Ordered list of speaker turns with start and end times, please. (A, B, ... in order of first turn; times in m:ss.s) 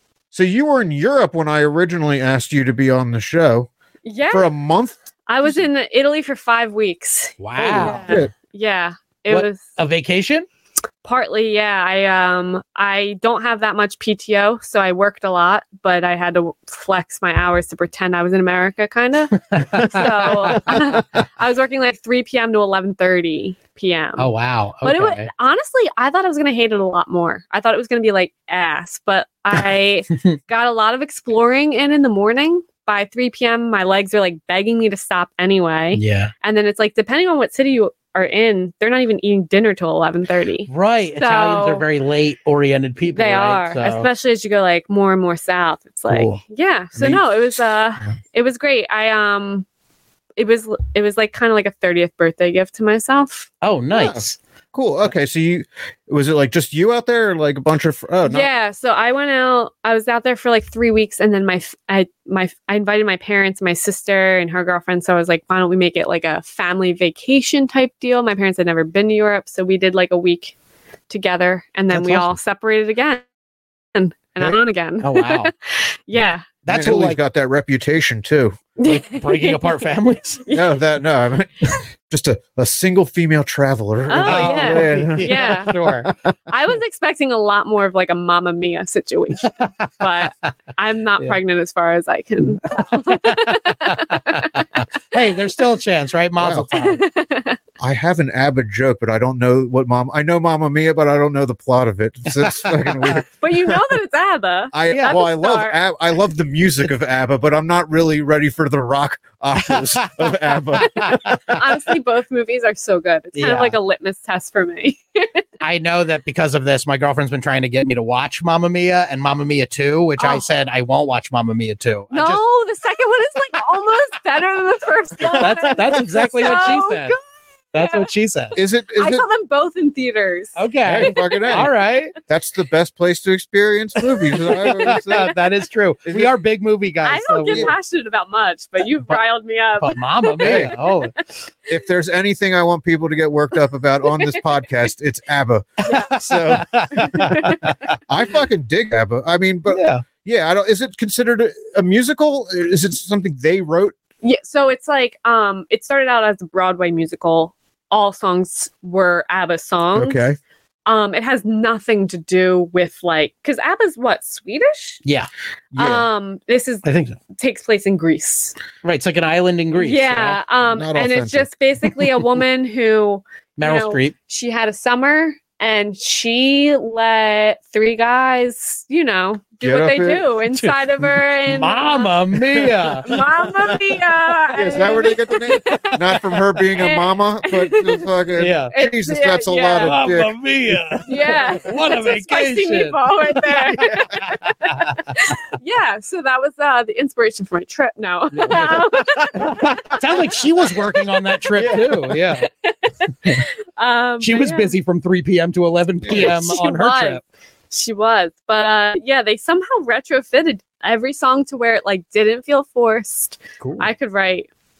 0:00.3-0:03.7 A
0:04.0-0:04.5 B
0:04.3-0:04.9 A
0:05.3-0:09.6 B
0:07.4-0:08.0 C
0:07.8-0:08.3 A
0:09.3-0:10.4 C
0:11.0-0:24.3 B
0:19.5-0:21.2 C
0:24.2-0:25.3 C
0:24.8-0:41.8 B
0:35.9-0:36.3 C
0:40.7-0:44.1 C
0:43.1-0:49.6 B
0:46.1-0:46.4 C
0:47.0-0:47.5 A
0:50.4-0:53.5 B
0:53.6-0:54.4 C
0:53.9-0:58.5 A
0:58.2-1:10.5 B
1:11.1-1:13.2 B
1:11.9-1:12.3 C
1:13.9-1:16.4 B
1:15.0-1:15.5 C
1:16.6-1:17.2 C
1:16.7-1:18.6 A
1:18.8-1:19.8 B
1:18.8-1:20.4 C
1:20.4-1:20.7 B
1:20.5-1:25.3 A
1:24.1-1:25.9 B
1:24.2-1:26.1 C
1:26.0-1:26.3 A
1:26.5-1:34.6 B
1:29.4-1:30.1 C
1:32.8-1:37.0 C
1:36.4-1:36.7 A
1:36.7-1:37.6 B
1:37.8-1:43.8 A
1:43.4-1:45.8 B
1:44.7-1:51.4 A
1:49.7-1:51.5 C
1:51.0-1:55.4 B
1:53.3-1:53.7 C
1:55.6-2:02.4 C
2:00.2-2:00.4 B
2:02.1-2:07.2 B
2:05.4-2:07.2 C
2:07.7-2:08.6 C
2:07.8-2:08.1 B
2:08.6-2:09.2 A
2:08.9-2:11.5 B
2:10.6-2:12.1 C
2:10.8-2:11.7 A
2:12.3-2:15.3 A
2:14.4-2:17.7 C
2:16.0-2:16.3 A
2:17.0-2:21.0 B
2:17.5-2:17.7 A
2:19.8-2:21.1 C
2:20.4-2:20.7 A
2:21.7-2:27.5 A
2:24.2-2:24.4 B
2:25.8-2:26.2 B
2:25.9-2:27.8 C
2:26.9-2:27.6 B
2:28.1-2:33.9 A
2:29.7-2:30.0 C
2:34.2-2:40.2 B
2:39.9-2:40.4 A
2:40.8-2:45.0 B
2:45.7-2:46.0 A
2:45.7-2:48.6 B
2:46.8-2:47.2 C
2:48.8-2:50.4 C
2:49.8-3:02.2 B
2:50.6-2:51.5 A
2:53.6-2:54.1 C
2:59.6-3:00.3 A
3:01.4-3:03.1 C
3:03.0-3:06.0 B
3:04.5-3:11.0 A
3:06.8-3:08.1 B
3:08.4-3:08.7 C
3:08.7-3:10.0 B
3:09.8-3:14.8 C
3:11.0-3:21.4 B
3:13.8-3:14.1 A
3:18.3-3:18.8 C
3:18.5-3:19.7 A
3:19.4-3:22.5 C
3:21.6-3:22.2 A
3:22.4-3:24.7 B
3:24.2-3:27.2 C
3:26.0-3:26.5 A
3:26.1-3:34.5 B
3:33.6-3:33.8 C